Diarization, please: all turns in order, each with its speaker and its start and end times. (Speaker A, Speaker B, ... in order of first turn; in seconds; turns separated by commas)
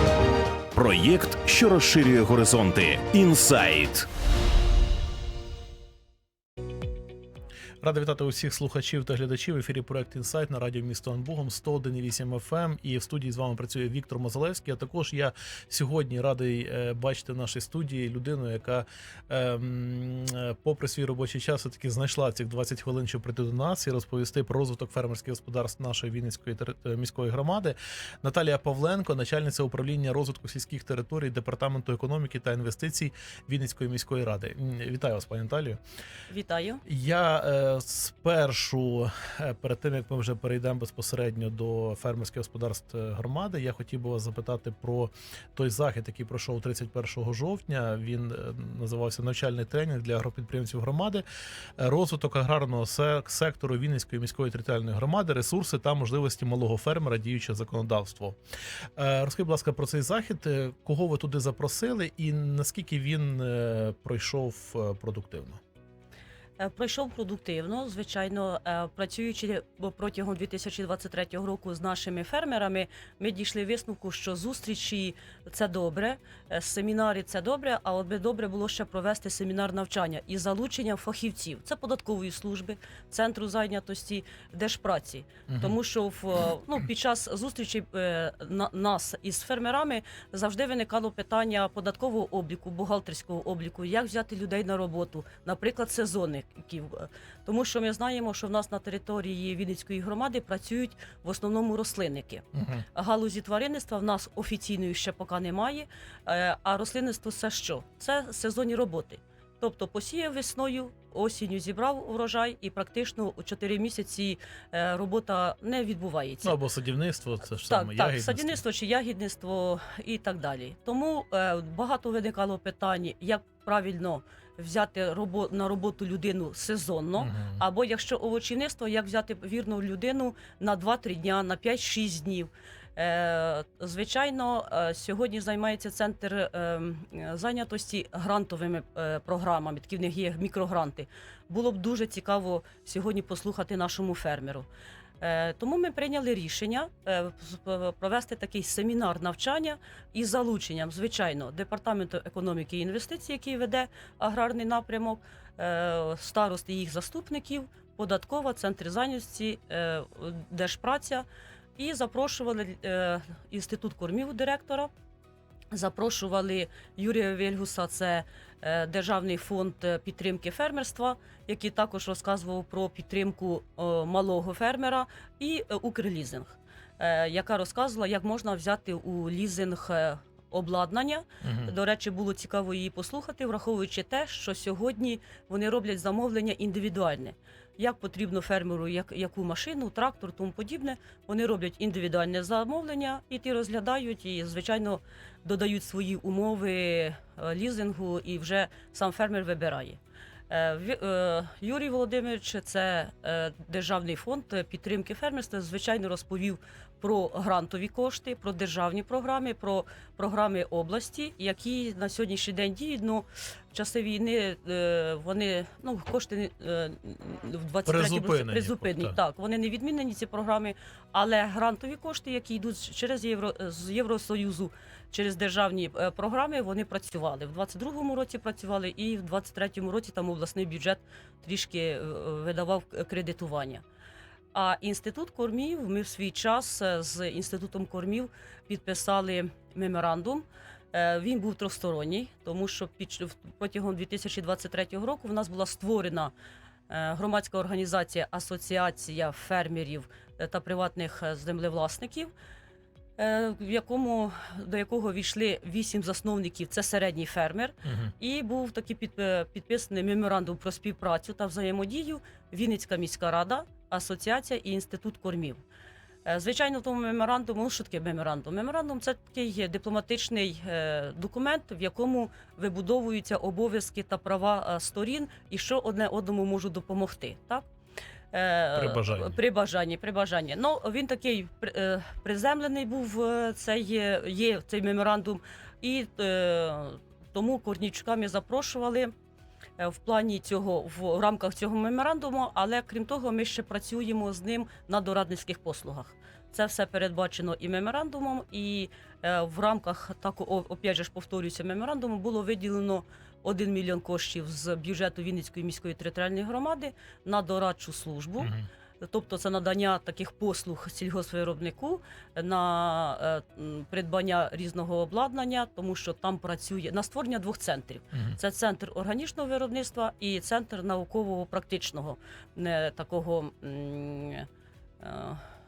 Speaker A: 0.7-4.1, Speaker B: 7.8-35.8, Speaker C: 36.3-36.8, Speaker B: 36.9-51.2, Speaker B: 51.8-58.4, Speaker B: 59.0-65.6, Speaker C: 66.6-116.6, Speaker B: 85.5-85.8, Speaker B: 102.5-102.8, Speaker B: 116.4-118.6, Speaker C: 117.6-144.7, Speaker B: 127.2-127.6, Speaker C: 145.2-161.2, Speaker C: 161.8-164.9, Speaker C: 165.7-200.0, Speaker B: 181.4-181.7, Speaker C: 200.5-233.8, Speaker B: 217.8-219.2, Speaker C: 234.5-246.3, Speaker C: 246.9-252.3, Speaker C: 253.2-265.6, Speaker B: 257.8-258.1, Speaker C: 266.2-277.6, Speaker C: 278.3-289.1, Speaker B: 278.7-279.4, Speaker C: 289.8-324.5, Speaker B: 308.4-308.7, Speaker C: 325.0-325.5